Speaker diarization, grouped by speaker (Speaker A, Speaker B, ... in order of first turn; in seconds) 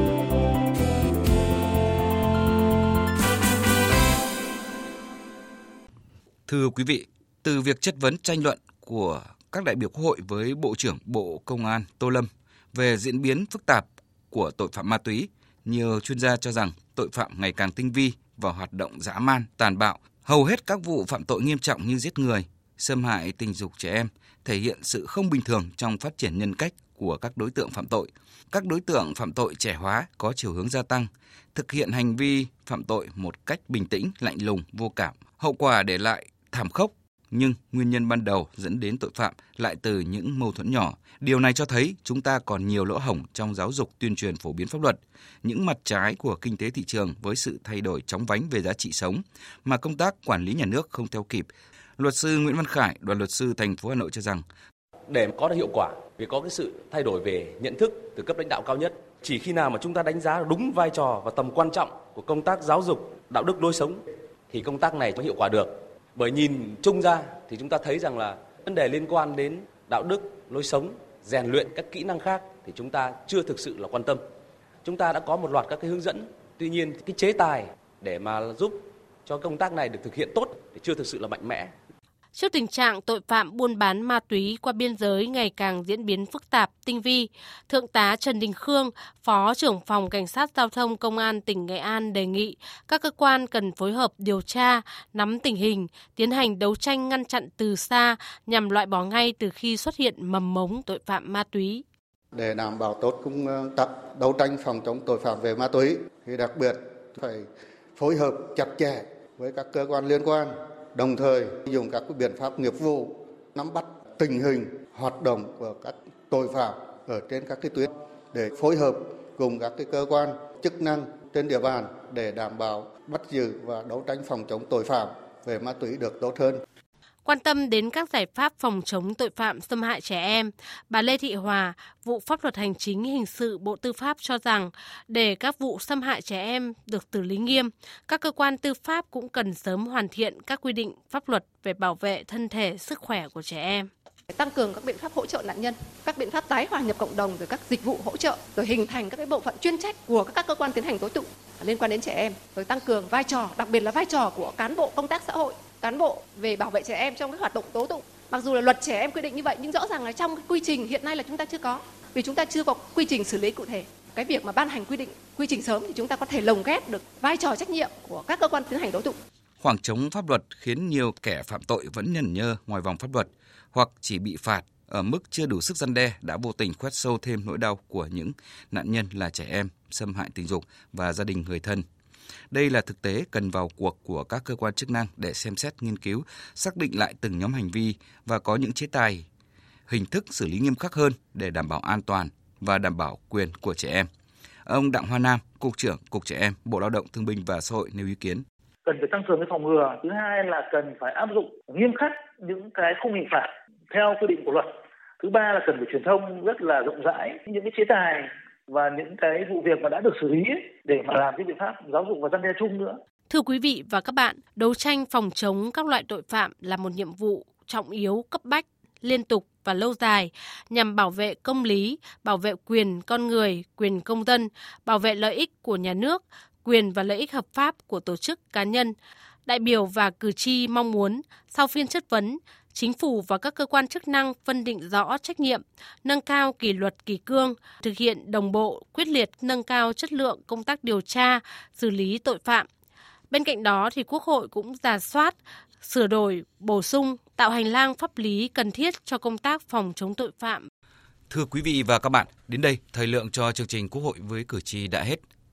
Speaker A: 6.5-54.4, 169.6-181.8, 182.5-189.3, 189.9-194.1, 194.7-198.4, 251.3-255.2
Speaker B: 55.1-64.0, 64.5-74.2, 74.8-81.7
Speaker C: 82.3-101.8, 127.2-143.9, 213.3-242.7, 243.3-250.7
Speaker D: 102.3-126.6
Speaker E: 144.3-169.2
Speaker F: 198.9-204.7, 205.2-213.0